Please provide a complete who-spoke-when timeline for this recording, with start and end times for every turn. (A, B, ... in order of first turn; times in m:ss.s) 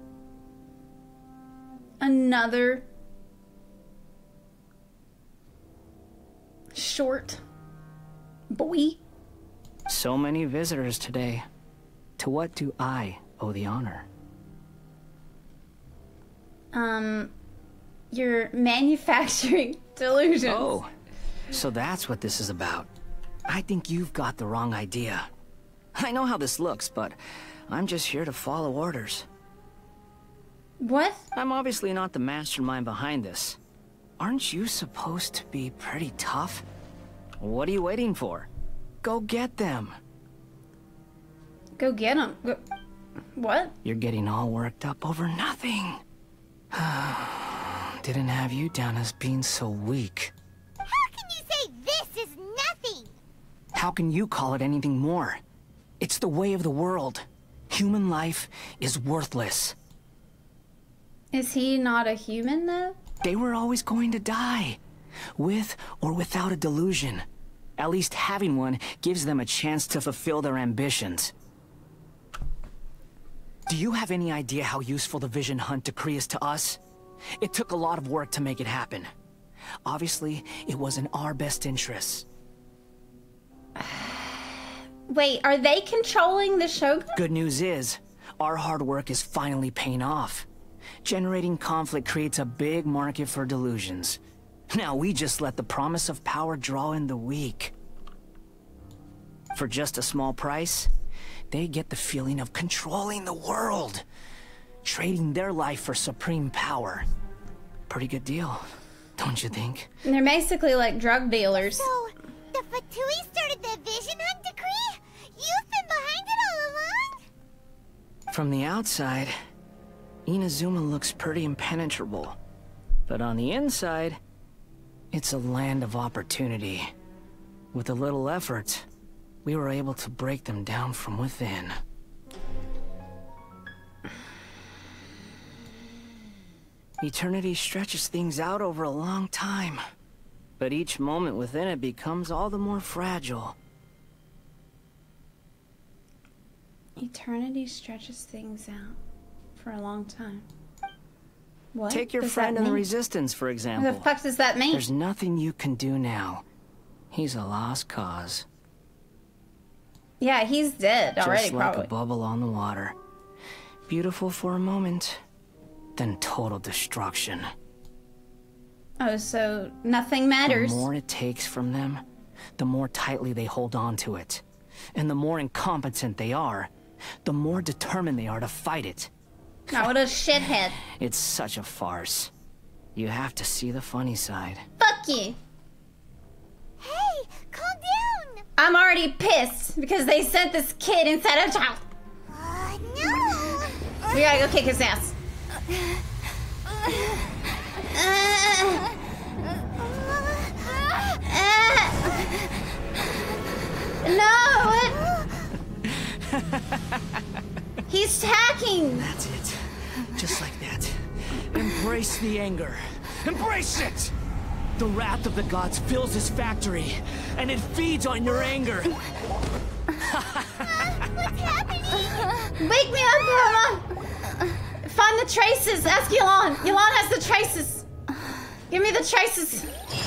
0:02.0-0:02.9 A
0:06.7-0:07.4 A
0:08.5-0:09.0 A
0:09.9-0:11.5 B
0:12.2-0:14.1 B
0:16.7-0:17.3 A
0:18.1-0:20.8 A
0:20.5-0:20.9 B
0:21.5-0:22.9 B
0:23.5-0:25.3 B
0:26.0-0:27.2 B
0:27.7-0:29.3 B
0:30.8-0:31.3 A
0:31.3-0:33.6 B
0:34.2-0:36.6 B
0:37.4-0:38.5 B
0:39.0-0:40.0 B
0:41.8-0:42.6 A
0:43.4-0:43.8 A
0:43.8-0:46.0 B
0:46.7-0:50.3 B
0:50.8-0:53.2 C
0:53.7-0:55.4 B
0:56.0-0:59.8 B
1:01.3-1:03.0 A
1:03.2-1:04.8 B
1:05.4-1:07.2 B
1:07.8-1:11.3 B
1:13.7-1:16.8 B
1:17.4-1:19.1 B
1:19.8-1:22.2 B
1:23.8-1:24.4 A
1:25.1-1:27.1 A
1:27.2-1:30.5 B
1:31.0-1:34.2 B
1:34.7-1:37.7 B
1:39.5-1:40.9 B
1:41.5-1:44.0 B
1:44.8-1:47.1 B
1:47.9-1:48.6 B
1:49.2-1:49.9 B
1:50.0-1:51.9 A
1:51.6-1:57.2 C
1:58.3-1:59.4 B
2:00.3-2:02.4 B
2:03.1-2:04.2 B
2:05.1-2:06.9 B
2:07.7-2:08.8 B
2:09.4-2:11.8 B
2:17.0-2:19.8 B
2:20.6-2:23.6 B
2:27.0-2:29.0 A
2:29.6-2:30.5 A
2:31.7-2:32.9 A
2:31.9-2:34.1 B
2:33.8-2:34.9 A
2:34.7-2:36.4 B
2:37.1-2:38.4 B
2:40.2-2:41.9 A
2:41.2-2:43.0 B
2:43.9-2:45.2 B
2:46.0-2:47.5 B
2:49.0-2:50.9 A
2:50.5-2:52.0 B
2:52.6-2:54.4 B
2:55.0-2:56.7 B
2:57.2-2:59.1 B
2:59.7-3:00.8 A
3:00.8-3:02.3 B
3:03.0-3:04.6 B
3:04.8-3:05.4 A
3:06.8-3:08.4 C
3:08.6-3:11.8 A
3:12.3-3:13.8 C
3:14.1-3:15.1 A
3:17.9-3:18.8 A
3:19.8-3:21.1 C
3:21.2-3:22.2 A
3:24.0-3:25.0 A
3:24.9-3:25.5 C
3:27.9-3:29.1 A
3:29.0-3:34.1 B
3:34.8-3:38.9 B
3:40.1-3:40.4 B
3:40.6-3:42.3 C
3:42.6-3:43.9 A
3:44.8-3:47.9 A
3:48.7-3:49.7 A